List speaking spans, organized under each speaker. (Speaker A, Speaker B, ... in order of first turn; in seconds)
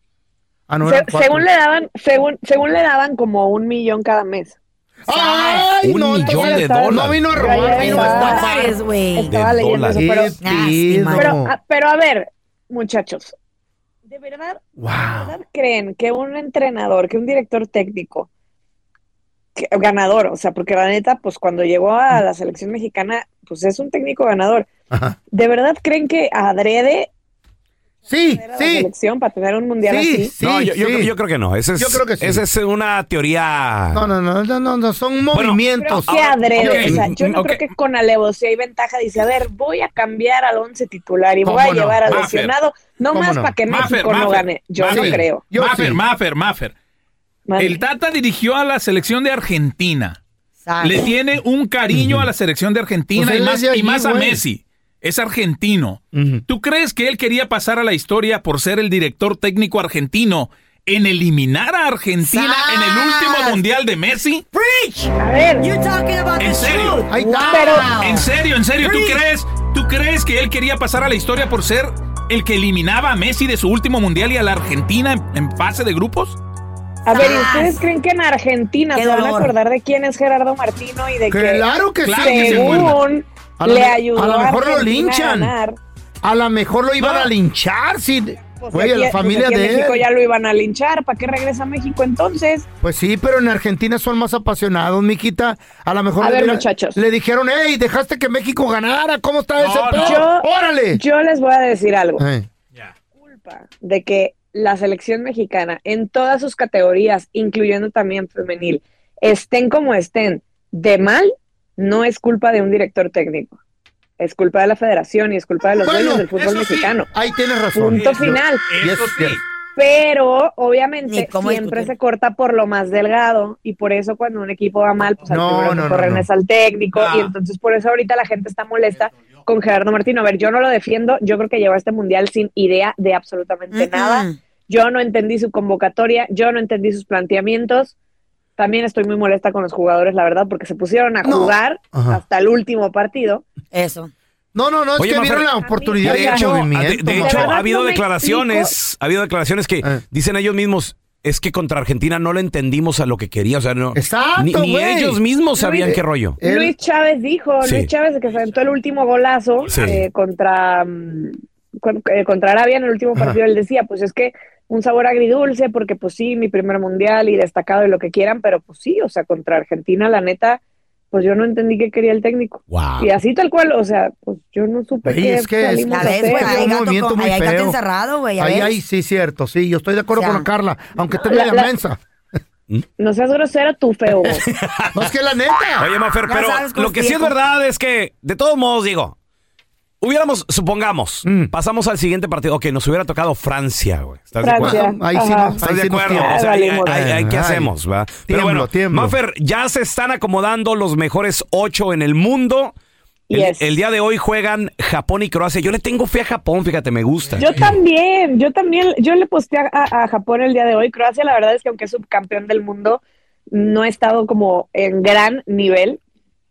Speaker A: 0.7-1.4, 5.1-8.7, 9.9-11.5, 14.8-15.3, 24.9-25.2, 28.1-28.9, 29.8-31.1, 31.8-32.4, 33.9-37.1, 41.4-42.0, 43.1-43.5, 44.9-46.0, 51.9-52.3, 53.1-54.4, 56.1-56.4, 67.1-67.9, 81.3-83.0, 83.6-85.5, 86.2-90.0, 92.8-101.0, 102.2-102.5, 115.8-116.3, 117.1-119.4, 125.2-126.2, 141.2-142.2, 144.5-147.5, 153.9-155.2, 155.7-156.7, 175.0-177.8, 178.4-182.0, 184.9-185.9, 191.2-191.5, 194.6-197.7, 198.3-199.1
Speaker B: 0.8-4.6, 5.1-5.7, 6.2-10.4, 11.1-13.3, 14.1-18.3, 19.6-24.7, 25.3-27.1, 28.3-30.3, 35.8-45.4, 47.5-47.8, 65.2-65.7, 67.5-67.9, 77.0-81.6, 82.2-85.8, 88.6-92.7, 96.2-97.0, 100.0-102.2, 103.2-113.6, 114.2-117.1, 117.7-118.7, 119.8-137.9, 138.6-143.4, 145.6-146.5, 147.1-148.7, 155.6-155.9, 156.4-170.6, 171.1-176.7, 181.3-181.7, 183.0-184.4, 194.4-195.6, 196.1-197.0, 203.3-203.8, 207.4-216.0
Speaker C: 5.1-5.7, 7.5-9.3, 10.4-11.4, 50.6-51.1, 62.2-63.6, 64.5-69.2, 77.1-77.8, 78.9-79.5, 121.1-121.9, 133.7-134.4, 143.7-144.1, 175.9-178.7, 180.2-180.4, 186.2-187.3
Speaker D: 5.8-7.6, 9.3-10.0, 30.4-34.0, 35.3-37.1, 145.0-145.5, 146.0-156.4, 157.6-157.9, 159.7-160.0, 172.7-173.1, 184.5-185.1, 185.8-189.1, 190.0-194.8, 195.6-202.7, 203.3-207.6
Speaker E: 36.6-37.0, 42.1-42.5, 43.7-46.7, 47.6-50.2, 50.8-64.5, 66.4-67.1, 67.9-76.4, 82.0-83.0, 99.6-100.2, 116.3-117.0, 117.9-119.4, 126.9-127.3